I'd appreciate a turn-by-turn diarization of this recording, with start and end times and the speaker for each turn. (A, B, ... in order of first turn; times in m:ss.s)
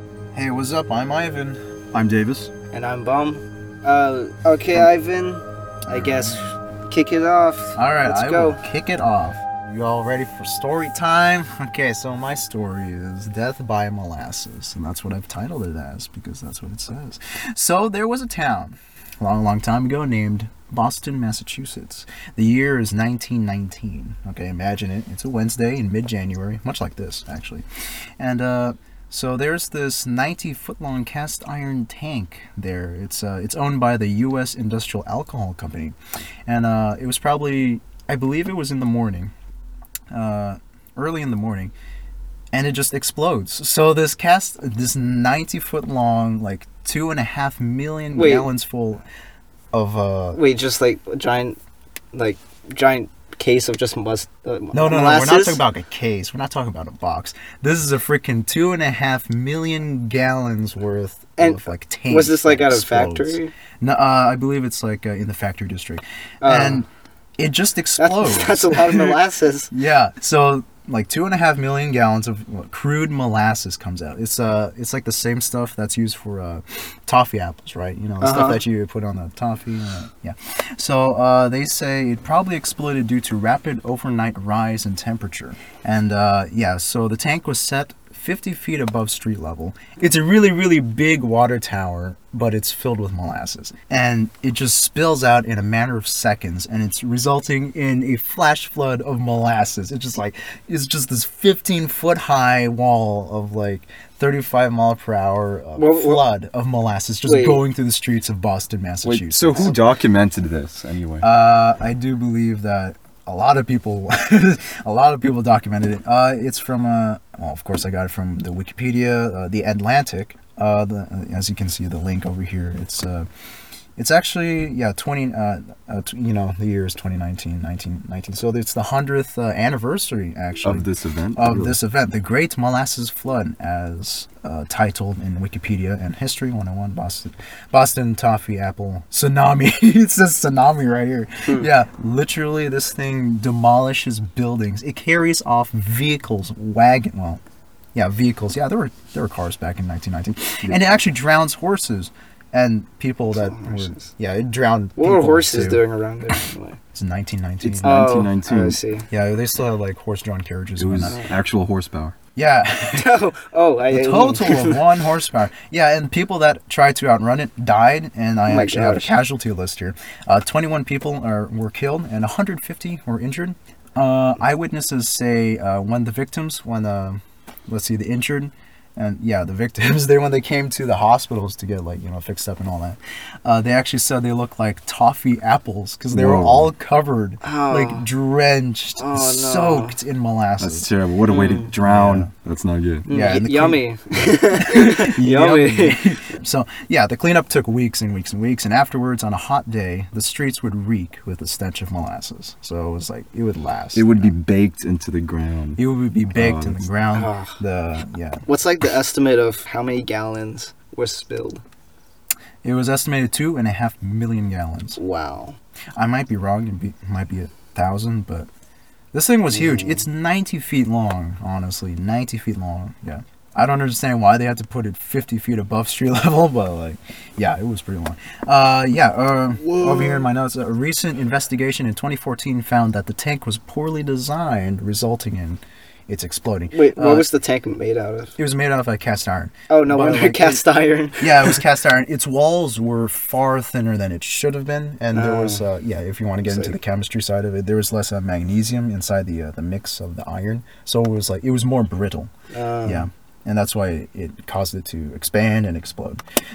0:00.3-0:01.6 A
0:01.9-0:02.5 B
0:02.7-0:08.6 C
0:07.8-0:27.6 A
0:28.2-0:39.3 A
0:40.1-0:41.7 A
0:42.5-0:49.0 A
0:48.1-0:48.5 C
0:49.7-0:50.4 A
0:50.4-0:51.6 C
0:52.1-0:55.6 C
0:54.7-1:06.9 A
1:01.4-1:03.5 C
1:06.4-1:06.8 C
1:07.4-1:09.2 A
1:08.0-1:09.7 C
1:09.7-1:49.8 A
1:18.2-1:18.6 C
1:45.8-1:46.2 C
1:47.3-1:47.6 C
1:49.0-1:51.3 B
1:51.2-2:03.3 A
2:04.0-2:27.4 A
2:10.6-2:11.8 B
2:28.0-2:35.8 A
2:30.6-2:31.0 B
2:33.3-2:34.1 C
2:35.0-2:36.8 C
2:36.9-2:38.3 A
2:37.6-2:39.1 C
2:37.8-2:38.8 B
2:39.1-2:41.2 A
2:40.8-2:42.2 B
2:42.4-2:43.2 A
2:42.9-2:44.8 C
2:43.9-3:10.9 A
2:48.5-2:49.1 C
3:06.1-3:06.7 B
3:07.4-3:08.1 C
3:09.0-3:10.0 C
3:10.6-3:13.1 B
3:11.3-3:11.7 C
3:11.7-3:12.3 A
3:13.1-3:13.8 A
3:13.1-3:16.3 C
3:14.6-3:24.3 A
3:23.9-3:25.8 B
3:25.8-3:28.4 A
3:26.4-3:26.9 B
3:27.1-3:27.6 C
3:28.5-3:31.6 C
3:32.6-3:35.0 A
3:35.0-3:35.6 C
3:36.0-3:38.5 A
3:39.1-3:57.3 A
3:39.5-3:40.0 C
3:49.6-3:50.3 C
3:56.7-3:58.4 C
3:58.4-4:00.6 A
3:59.7-4:01.6 C
4:01.2-4:12.3 A
4:05.1-4:05.6 C
4:06.5-4:06.8 C
4:12.5-4:13.1 C
4:12.8-4:16.2 A